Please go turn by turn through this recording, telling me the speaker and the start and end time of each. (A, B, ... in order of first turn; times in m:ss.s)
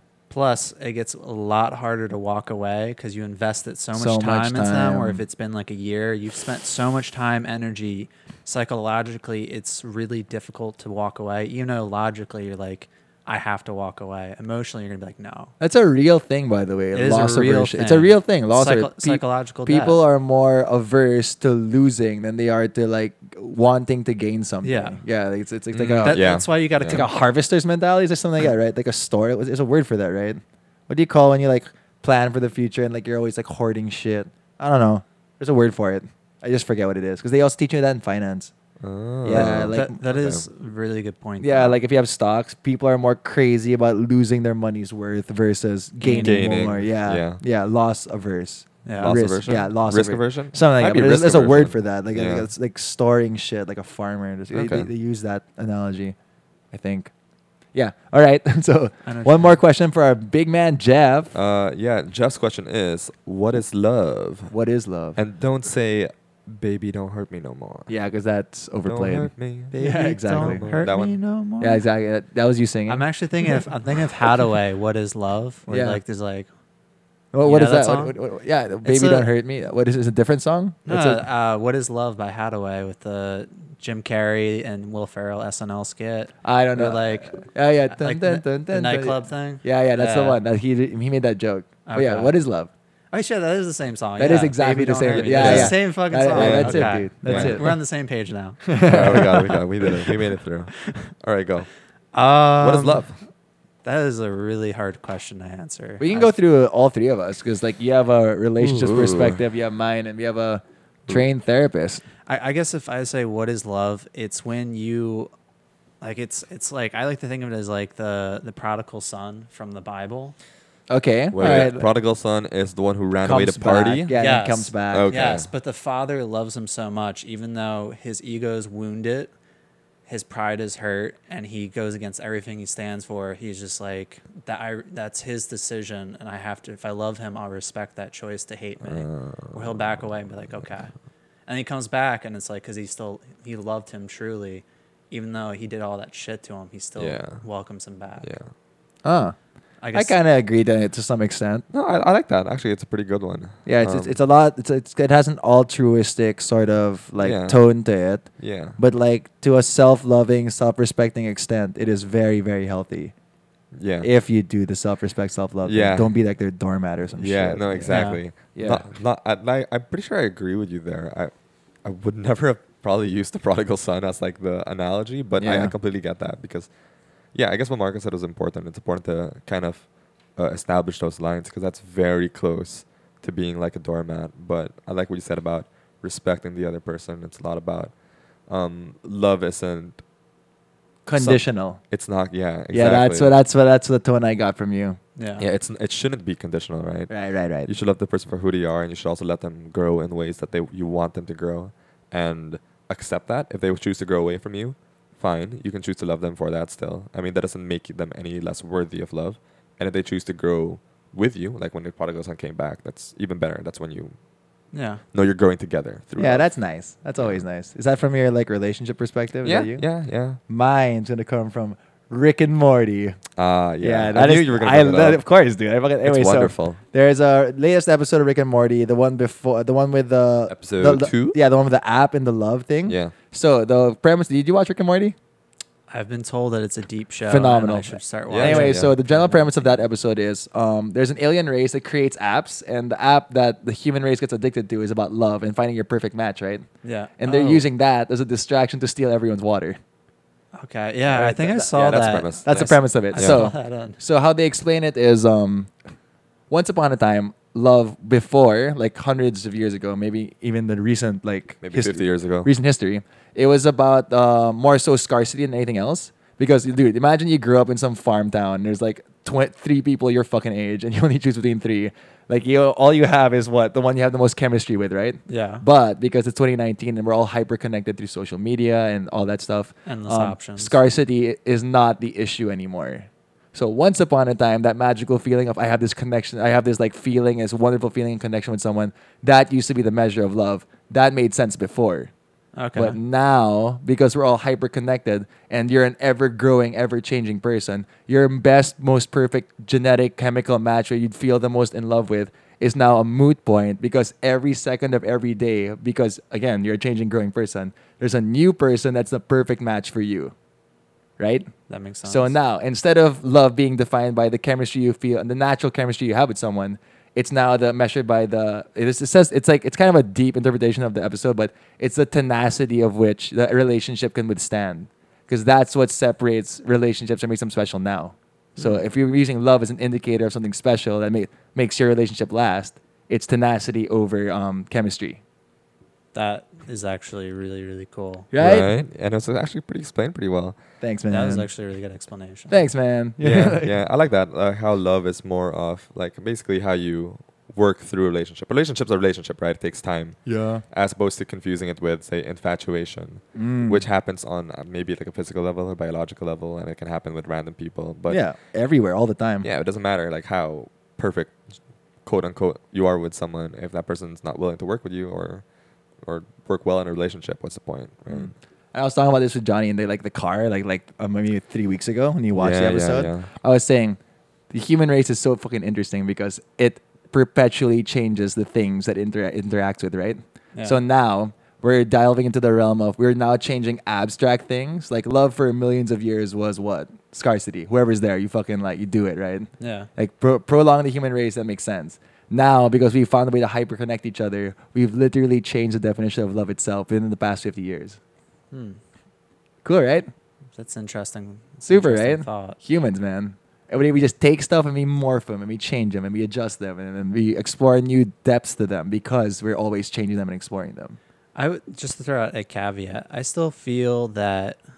0:00.3-0:15.5 A
0:03.9-0:05.2 B
0:15.6-0:26.2 B
0:16.9-0:20.0 A
0:24.6-0:25.0 A
0:25.7-0:27.1 C
0:26.0-0:27.1 A
0:26.9-0:38.5 B
0:38.8-0:40.5 C
0:39.2-0:40.0 B
0:39.3-0:41.8 A
0:41.4-0:56.2 B
0:46.0-0:46.6 A
0:46.1-0:47.4 C
0:48.8-0:49.2 A
0:49.0-0:52.5 C
0:54.5-0:54.9 C
0:56.7-0:57.1 B
0:57.7-1:01.3 B
0:59.1-0:59.6 A
1:01.3-1:04.5 C
1:04.5-1:05.2 B
1:05.2-1:07.9 C
1:07.9-1:10.6 B
1:08.8-1:09.7 C
1:09.7-1:11.8 A
1:10.4-1:11.2 C
1:11.6-1:13.7 B
1:12.9-1:16.5 A
1:15.7-1:16.0 B
1:17.3-1:21.2 B
1:17.4-1:18.2 A
1:18.8-1:19.3 A
1:20.9-1:30.4 A
1:26.4-1:32.7 B
1:31.9-1:32.4 A
1:33.1-1:38.6 A
1:34.2-1:37.8 B
1:35.1-1:35.8 C
1:36.3-1:37.7 C
1:38.7-1:40.1 B
1:38.8-1:41.7 C
1:42.1-1:43.1 A
1:42.6-1:43.2 C
1:43.8-1:46.3 A
1:46.0-1:52.0 B
1:48.6-1:49.4 C
1:52.3-1:55.3 A
1:56.0-2:00.4 A
2:00.9-2:01.9 B
2:01.3-2:04.1 C
2:03.2-2:05.1 B
2:04.1-2:09.3 A
2:04.9-2:05.5 C
2:10.1-2:20.9 A
2:18.8-2:20.7 C
2:21.5-2:28.3 A
2:27.0-2:27.4 C
2:29.0-2:29.4 B
2:29.8-2:30.2 A
2:29.9-2:31.6 B
2:31.7-2:34.1 C
2:33.7-2:43.1 B
2:37.2-2:37.6 C
2:38.4-2:38.8 C
2:43.8-2:44.1 C
2:44.0-2:48.0 B
2:45.7-2:46.1 C
2:47.2-2:51.3 C
2:47.9-2:48.2 A
2:48.6-2:48.8 B
2:51.8-2:56.7 C
2:55.4-2:55.7 B
2:57.3-3:07.9 C
3:08.5-3:10.0 C
3:11.1-3:11.8 B
3:11.2-3:13.3 C
3:12.7-3:15.0 B
3:15.2-3:15.4 A
3:15.4-3:17.1 C
3:17.1-3:17.7 B
3:17.6-3:34.1 C
3:34.7-3:35.0 A
3:35.1-3:36.5 C
3:36.2-3:39.8 B
3:37.2-3:37.4 C
3:39.4-3:40.4 C
3:40.5-3:43.2 B
3:43.4-3:45.2 C
3:43.8-3:55.2 B
3:46.0-3:46.8 C
3:50.5-3:51.4 C
3:52.9-3:53.1 C
3:55.9-3:59.6 A
3:57.3-4:06.6 B
3:58.3-3:59.0 C
4:06.8-4:07.7 A
4:07.2-4:09.8 B
4:10.6-4:14.0 A
4:11.2-4:13.5 C
4:11.2-4:11.5 B
4:12.4-4:15.7 B
4:16.5-4:52.1 B
4:21.6-4:22.5 C
4:35.3-4:35.6 A
4:39.9-4:40.8 A
4:52.6-4:53.0 A
4:52.8-5:10.3 B
5:11.2-5:11.5 B
5:11.7-5:12.3 A
5:12.1-5:35.2 B
5:36.1-5:38.3 A
5:38.3-5:38.7 B
5:38.4-5:40.6 C
5:40.8-5:41.5 B
5:41.1-5:42.6 A
5:42.5-5:43.8 B
5:43.2-5:58.2 C
5:50.3-5:50.6 B
5:53.4-5:53.8 B
5:58.1-5:59.5 B
5:59.4-6:01.4 C
6:02.0-6:05.4 C
6:06.0-6:08.3 C
6:08.1-6:14.0 B
6:12.4-6:13.3 C
6:14.5-6:38.0 B
6:29.6-6:29.9 A
6:38.5-6:38.8 A
6:39.6-6:40.1 B
6:40.6-6:42.6 A
6:41.6-6:51.0 B
6:51.4-6:54.6 A